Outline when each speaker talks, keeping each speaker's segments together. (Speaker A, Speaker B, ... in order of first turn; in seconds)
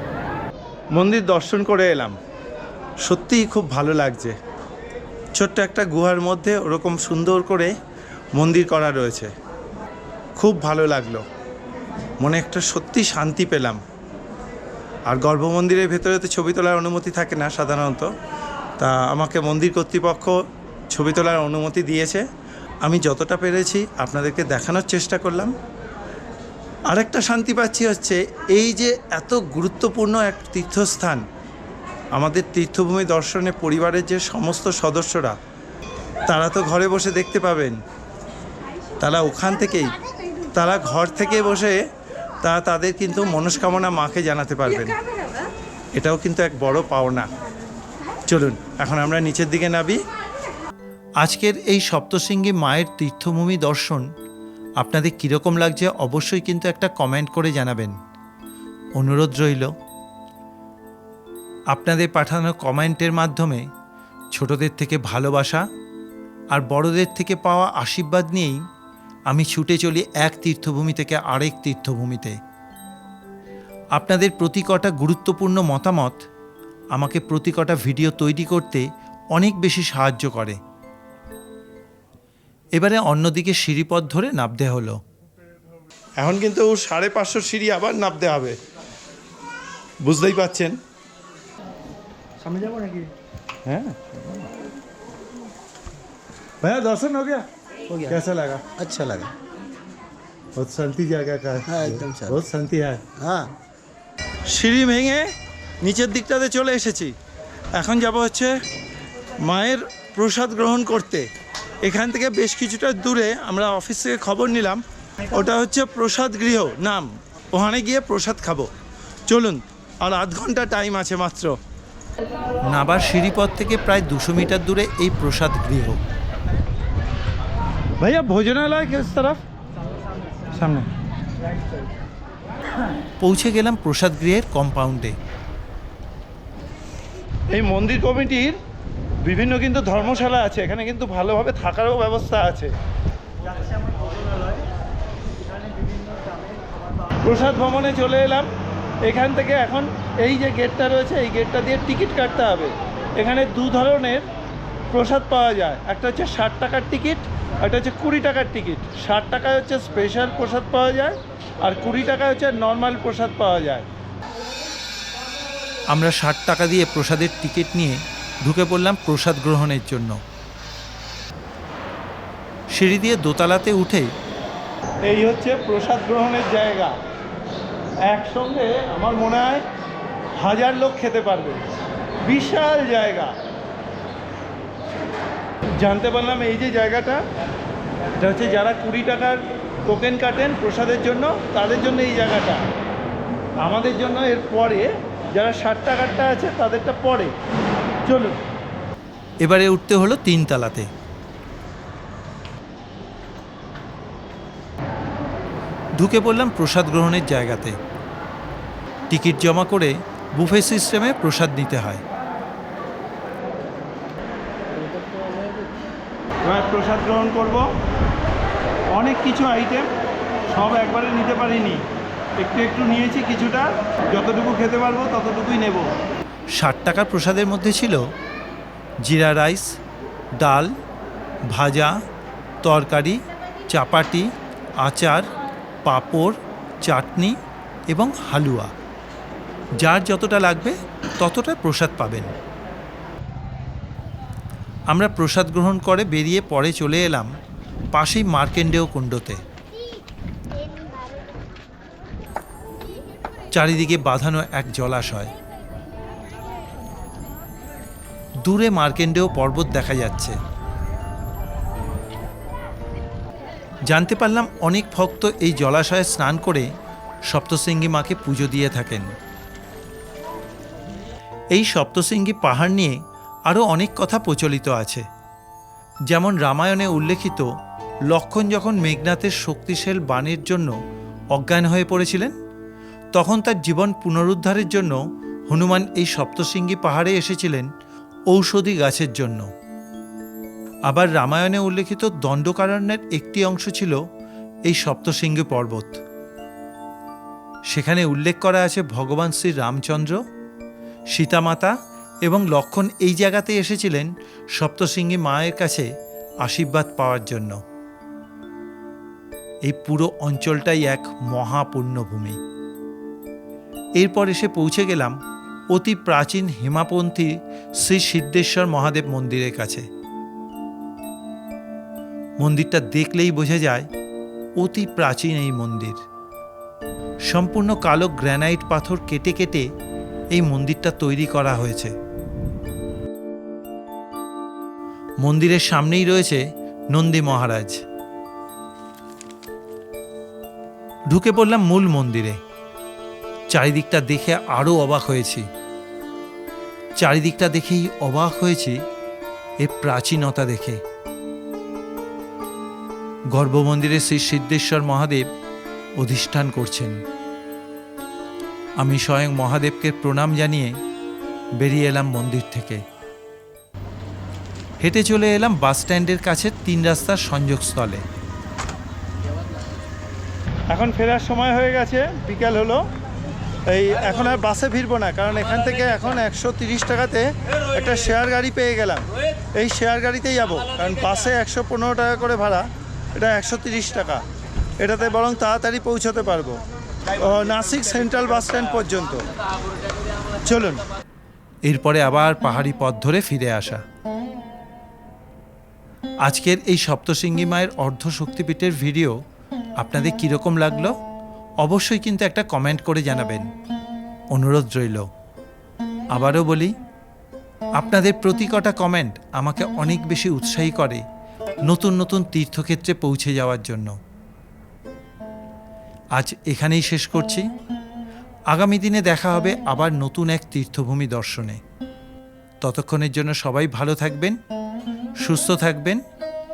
Speaker A: 0.9-2.1, 3.0-4.3, 5.3-7.7, 8.3-9.3, 10.4-11.2, 12.2-13.8, 15.1-18.1, 18.8-20.4, 20.9-22.2, 22.8-25.5, 26.9-31.2, 32.1-35.4, 36.3-37.8, 39.0-39.9, 40.5-41.8, 42.4-44.9, 46.0-47.3, 48.3-50.0, 86.2-88.6, 90.0-90.8, 92.4-93.1, 93.7-94.5, 96.6-98.6, 100.6-103.0, 104.5-107.1, 107.7-108.5, 109.4-111.3, 111.8-118.7, 119.3-121.6, 128.0-129.4, 130.5-130.9, 137.5-138.6, 139.2-142.7, 147.2-148.5, 149.0-154.2, 154.9-163.9, 175.0-176.9, 178.1-179.6, 180.4-181.6, 182.2-183.3, 185.8-187.2, 188.2-192.7, 193.6-197.3, 198.1-198.4, 216.4-217.7, 218.9-219.9, 220.5-221.8, 222.4-225.9, 370.7-372.9, 373.7-384.2, 384.8-386.6, 387.2-389.2, 390.4-390.8
Speaker B: 51.2-54.0, 54.8-58.0, 59.0-59.7, 61.7-63.7, 64.3-65.6, 66.5-68.6, 69.3-72.4, 73.9-76.2, 76.9-80.6, 82.8-85.0, 122.7-126.0, 133.2-135.2, 165.9-170.2, 172.7-174.1, 199.4-200.9, 205.9-207.8, 209.1-212.0, 226.6-228.1, 229.0-229.7, 230.4-230.7, 231.5-231.9, 232.6-234.3, 234.8-235.3, 235.8-237.4, 237.9-238.7, 239.8-242.3, 244.9-247.3, 247.9-249.4, 253.5-255.3, 258.4-260.4, 263.9-266.7, 267.3-269.1, 271.5-275.0, 276.1-277.5, 278.1-280.7, 281.3-282.3, 283.1-287.7, 288.3-289.5, 290.9-294.0, 294.7-296.0, 297.7-300.2, 301.1-301.7, 302.2-305.9, 306.4-307.6, 309.6-312.4, 314.0-315.2, 315.7-319.9, 322.4-323.9, 324.6-326.0, 327.3-329.7, 330.3-331.9, 335.2-337.8, 341.1-342.4, 343.5-345.5, 347.0-348.8, 349.6-350.8, 353.3-355.3, 356.0-357.0, 358.8-360.8, 361.6-362.8, 364.8-368.0, 391.6-393.8, 396.2-399.2, 399.8-400.9, 401.6-403.5, 404.3-405.1, 406.1-406.7, 407.8-411.0, 411.6-413.9, 416.1-417.4, 418.5-421.6, 422.6-424.4, 425.2-426.0
Speaker C: 98.8-99.3, 101.7-102.4, 103.2-103.5, 214.7-215.7